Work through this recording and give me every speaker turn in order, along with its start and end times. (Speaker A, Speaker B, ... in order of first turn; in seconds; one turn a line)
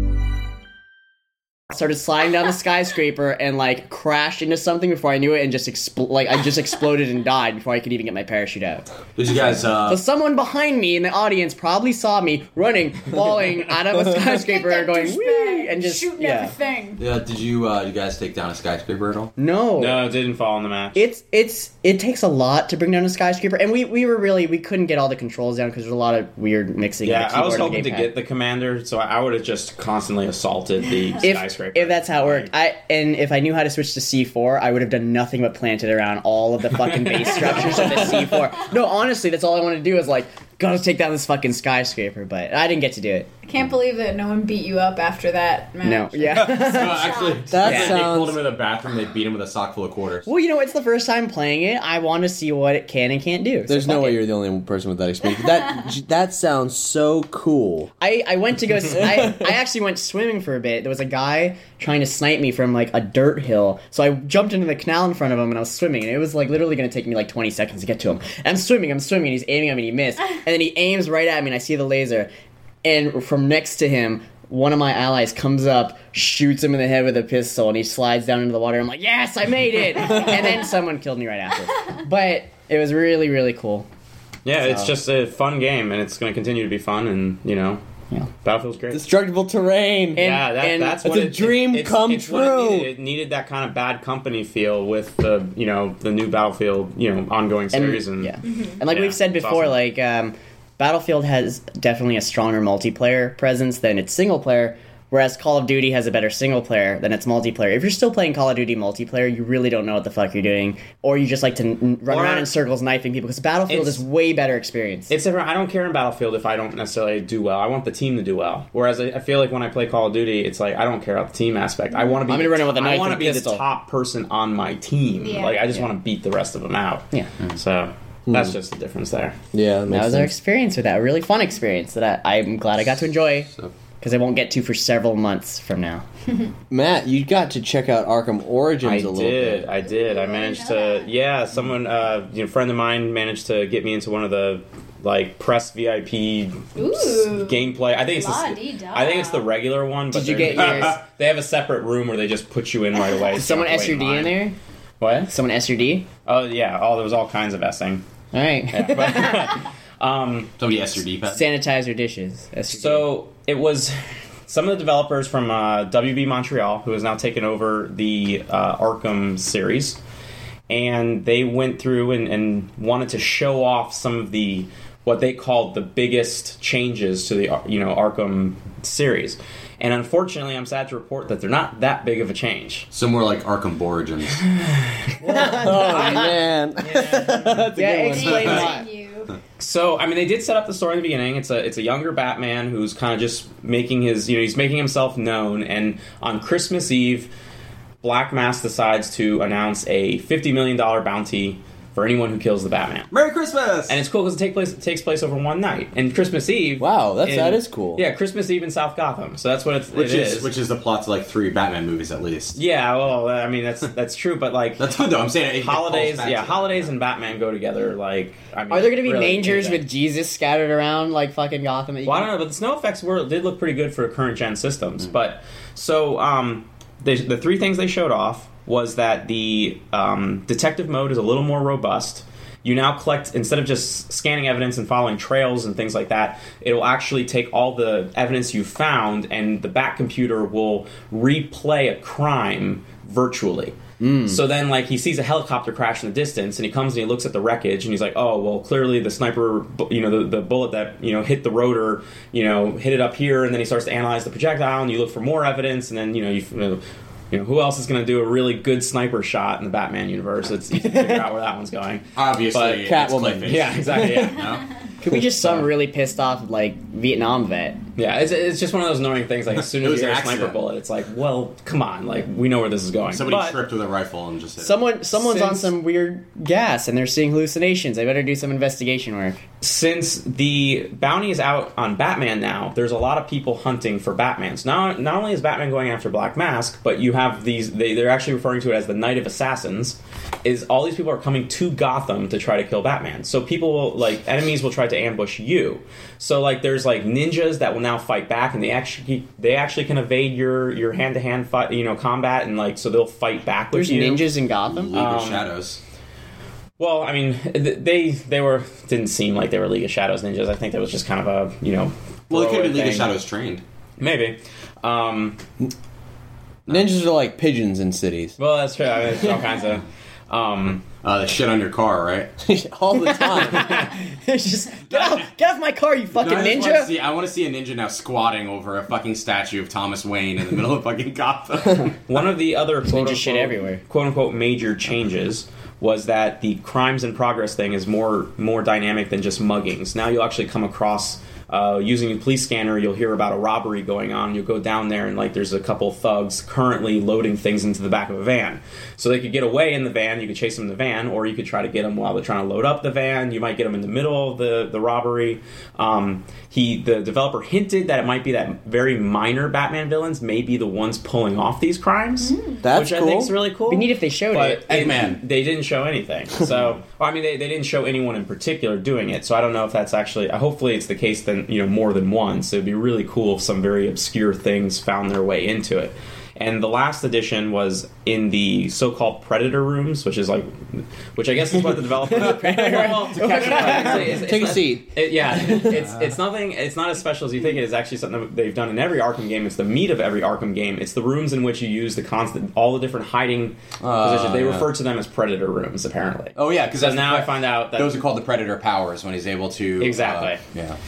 Speaker A: 1.7-8.8
Speaker B: 9.2-10.0
Speaker A: 9.9-16.5
Speaker C: 14.3-17.0
Speaker B: 17.0-19.3
Speaker A: 19.4-20.1
Speaker D: 19.8-21.0
Speaker A: 20.9-28.1
Speaker D: 27.0-32.5
Speaker A: 31.2-43.3
Speaker D: 36.8-38.1
Speaker C: 43.4-47.5
Speaker A: 45.8-47.1
Speaker B: 46.5-50.3
Speaker E: 47.5-48.4
Speaker A: 47.6-48.0
Speaker A: 50.2-54.2
Speaker E: 53.7-57.9
Speaker A: 58.0-72.3
Speaker E: 58.9-59.5
Speaker A: 72.8-83.9
Speaker D: 84.5-87.8
Speaker A: 84.6-84.9
Speaker D: 88.4-89.0
Speaker E: 88.9-90.2
Speaker A: 90.2-91.1
Speaker D: 90.2-98.4
Speaker E: 90.8-92.9
Speaker A: 97.7-115.1
Speaker C: 98.4-98.8
Speaker D: 98.9-99.8
Speaker D: 112.1-112.5
Speaker D: 113.7-114.0
Speaker D: 115.1-129.4
Speaker A: 122.3-123.6
Speaker C: 125.2-125.7
Speaker E: 128.3-128.6
Speaker E: 129.5-130.3
Speaker A: 129.9-133.5
Speaker A: 134.0-136.0
Speaker E: 136.7-139.7
Speaker D: 138.8-154.4
Speaker C: 139.9-141.1
Speaker C: 146.8-149.5
Speaker A: 150.1-151.0
Speaker B: 150.4-151.0
Speaker A: 153.3-154.6
Speaker D: 155.0-155.3
Speaker A: 155.3-156.1
Speaker D: 156.2-158.0
Speaker A: 158.3-159.5
Speaker D: 158.7-160.5
Speaker B: 158.9-159.3
Speaker B: 160.6-161.4
Speaker A: 161.3-163.1
Speaker D: 162.7-170.0
Speaker D: 170.7-182.9
Speaker B: 182.9-184.4
Speaker D: 184.6-187.6
Speaker E: 185.2-188.6
Speaker A: 185.3-185.7
Speaker A: 187.7-188.8
Speaker C: 188.1-189.4
Speaker B: 188.3-188.6
Speaker D: 189.6-197.3
Speaker D: 198.0-203.1
Speaker B: 203.1-204.0
Speaker D: 203.9-210.5
Speaker E: 206.8-208.0
Speaker B: 209.9-212.6
Speaker D: 212.6-214.9
Speaker B: 214.8-216.9
Speaker D: 215.6-219.8
Speaker A: 218.7-222.3
Speaker D: 222.1-243.8
Speaker E: 244.0-244.4
Speaker D: 244.3-264.5
Speaker A: 260.8-261.2
Speaker B: 262.2-264.6
Speaker E: 262.8-264.4
Speaker A: 265.0-267.8
Speaker E: 265.0-265.7
Speaker D: 268.0-273.6
Speaker B: 269.6-270.6
Speaker B: 273.1-274.9
Speaker A: 274.6-279.4
Speaker D: 279.6-304.3
Speaker A: 303.7-305.0
Speaker B: 304.7-305.8
Speaker D: 304.9-305.5
Speaker D: 306.8-313.1
Speaker B: 312.3-313.6
Speaker D: 314.0-315.4
Speaker E: 316.7-318.4
Speaker D: 318.4-320.9
Speaker B: 321.0-322.3
Speaker E: 322.4-323.9
Speaker A: 323.0-326.9
Speaker B: 324.9-325.3
Speaker B: 326.1-332.0
Speaker D: 332.1-398.0
Speaker A: 332.9-333.8
Speaker C: 362.2-362.6
Speaker E: 362.6-363.3
Speaker A: 363.7-364.6
Speaker B: 364.7-365.2
Speaker A: 382.2-384.3
Speaker E: 382.3-382.6
Speaker E: 383.2-385.8
Speaker B: 385.7-386.0
Speaker B: 393.8-394.7
Speaker B: 396.4-400.8
Speaker D: 399.8-400.4